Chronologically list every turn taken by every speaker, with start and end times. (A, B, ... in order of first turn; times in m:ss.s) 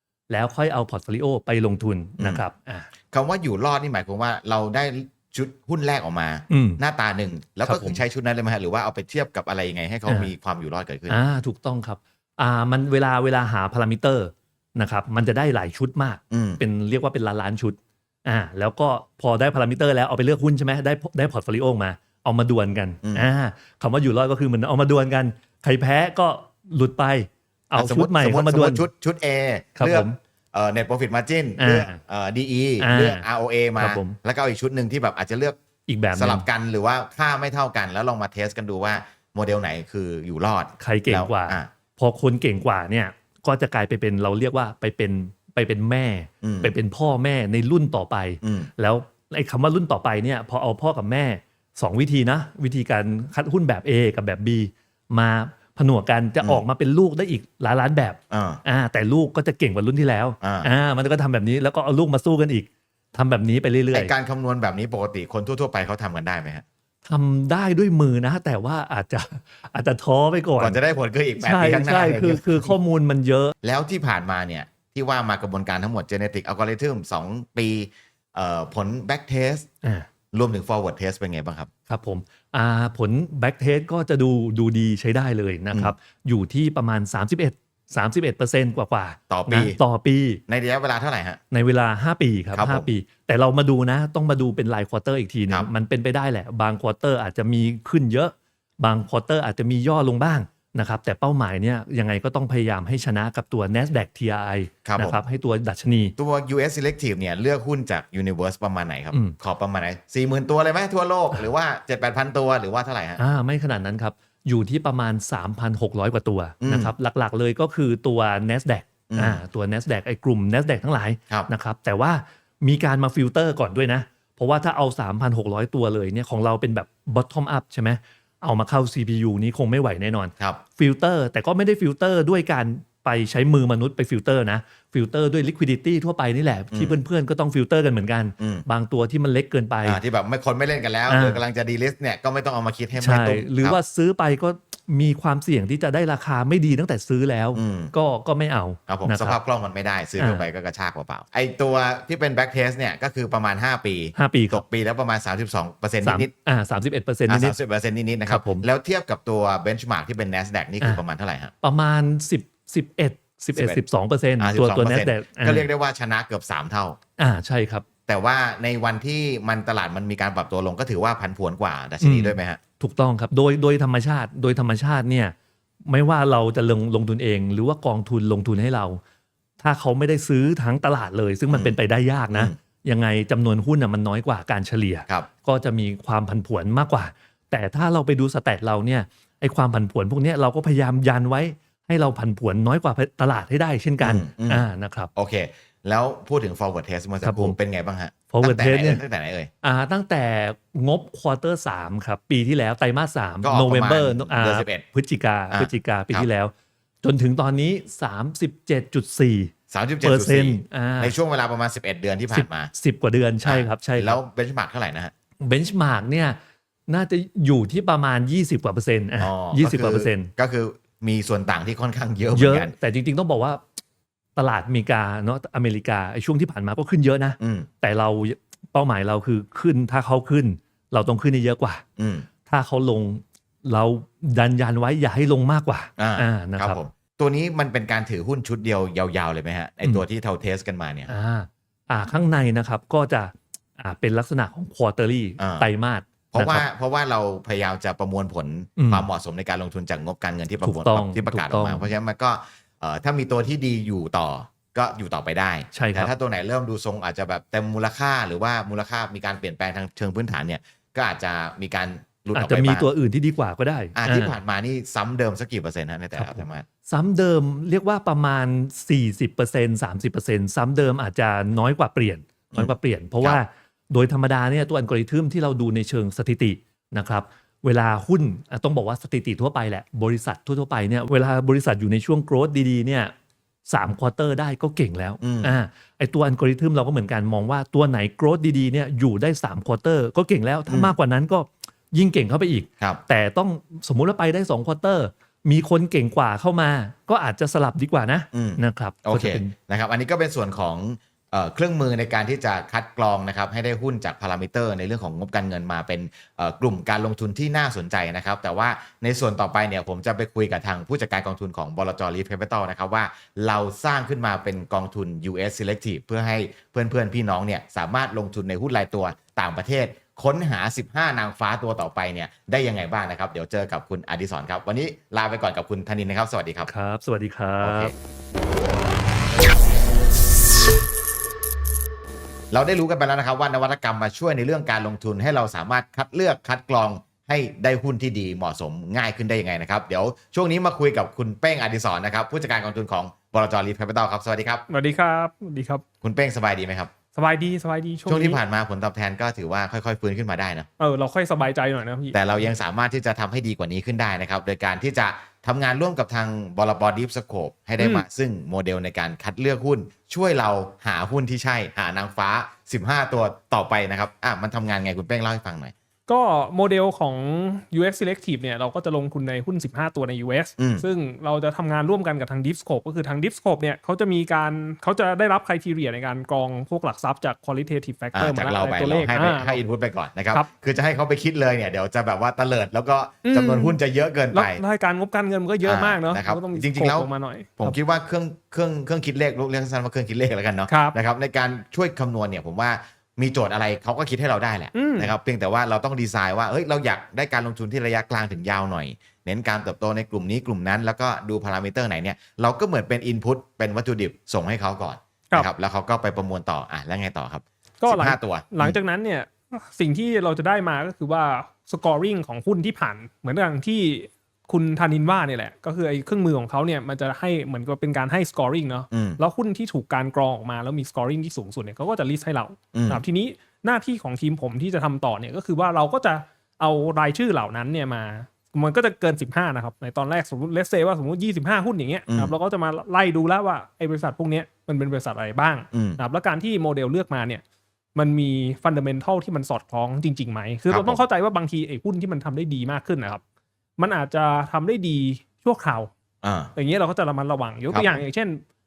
0:00.3-0:02.9 A
0:02.2-0:02.4 B
0:03.1-0:11.2 B
0:06.5-0:06.8 A
0:07.6-0:08.0 A
0:11.1-0:28.8 A
0:16.3-0:16.6 B
0:27.8-0:35.6 B
0:29.8-0:30.2 A
0:31.6-0:32.0 A
0:32.8-0:33.2 A
0:33.8-0:34.2 A
0:35.9-0:36.4 A
0:36.2-0:41.7 B
0:40.8-1:04.1 A
0:46.4-0:46.7 B
0:48.4-0:48.7 B
0:58.3-0:58.6 B
1:00.4-1:00.7 B
1:03.9-1:06.6 B
1:07.0-1:10.8 A
1:10.6-1:12.7 B
1:11.4-1:13.5 A
1:13.6-1:19.7 B
1:19.8-1:20.1 A
1:20.3-1:21.7 B
1:21.9-1:30.4 A
1:29.3-1:29.8 B
1:30.5-1:31.4 B
1:31.5-1:46.1 A
1:32.5-1:32.9 B
1:44.8-1:45.2 B
1:46.2-1:53.2 B
1:53.2-2:20.0 A
1:56.6-1:56.9 B
1:59.1-1:59.4 B
2:16.7-2:17.0 B
2:18.4-2:18.6 B
2:19.8-2:23.8 B
2:21.1-2:21.4 A
2:23.0-2:29.4 A
2:27.5-2:27.9 B
2:28.9-2:36.3 B
2:30.2-2:30.4 A
2:34.2-2:34.6 A
2:36.0-2:37.5 A
2:37.3-2:41.5 B
2:38.3-2:38.7 A
2:41.6-2:45.7 A
2:43.5-2:43.8 B
2:44.4-2:47.0 B
2:47.2-2:47.8 A
2:48.1-2:52.6 B
2:52.0-2:55.3 A
2:55.9-2:59.0 A
2:59.6-3:15.1 A
3:01.5-3:01.8 B
3:14.0-3:14.6 B
3:15.1-3:19.5 B
3:17.2-3:17.6 A
3:18.3-3:19.0 A
3:19.6-3:31.1 A
3:23.4-3:24.8 B
3:25.5-3:26.2 B
3:29.7-3:32.7 B
3:32.3-3:34.2 A
3:33.4-3:35.1 B
3:35.4-3:40.3 A
3:39.2-3:42.7 B
3:42.3-3:43.6 A
3:44.4-3:51.8 A
3:47.4-3:47.7 B
3:52.0-3:52.3 B
3:52.4-3:56.8 A
3:56.0-4:01.1 B
4:01.1-4:06.6 A
4:05.4-4:05.7 B
4:06.3-4:22.8 B
4:08.8-4:09.0 A
4:10.6-4:11.9 A
4:15.7-4:16.1 A
4:22.3-4:24.4 A
4:23.9-4:26.7 B
4:26.2-4:43.1 A
4:32.5-4:33.4 B
4:43.7-4:59.5 A
4:45.2-4:45.5 B
4:50.7-4:50.9 B
4:58.3-5:26.7 B
5:26.7-5:27.9 A
5:27.6-5:27.9 B
5:32.5-5:44.6 B
5:44.7-5:45.8 C
5:46.0-5:46.9 B
5:47.2-5:48.4 C
5:48.1-5:50.7 B
5:50.8-5:52.2 C
5:52.1-6:05.7 B
5:57.8-5:58.0 C
6:06.1-6:19.6 C
6:10.6-6:10.8 B
6:18.1-6:24.6 B
6:23.2-6:23.8 C
6:24.3-6:27.7 C
6:25.6-6:48.8 B
6:30.7-6:31.0 C
6:34.7-6:35.1 C
6:47.8-7:17.4 C
6:58.9-6:59.2 B
7:02.7-7:03.0 B
7:12.1-7:12.4 B
7:15.7-7:16.0 B
7:17.9-7:23.2 C
7:20.7-7:21.0 B
7:23.8-7:25.9 C
7:26.2-7:26.5 B
7:26.6-7:28.4 C
7:27.7-7:28.0 B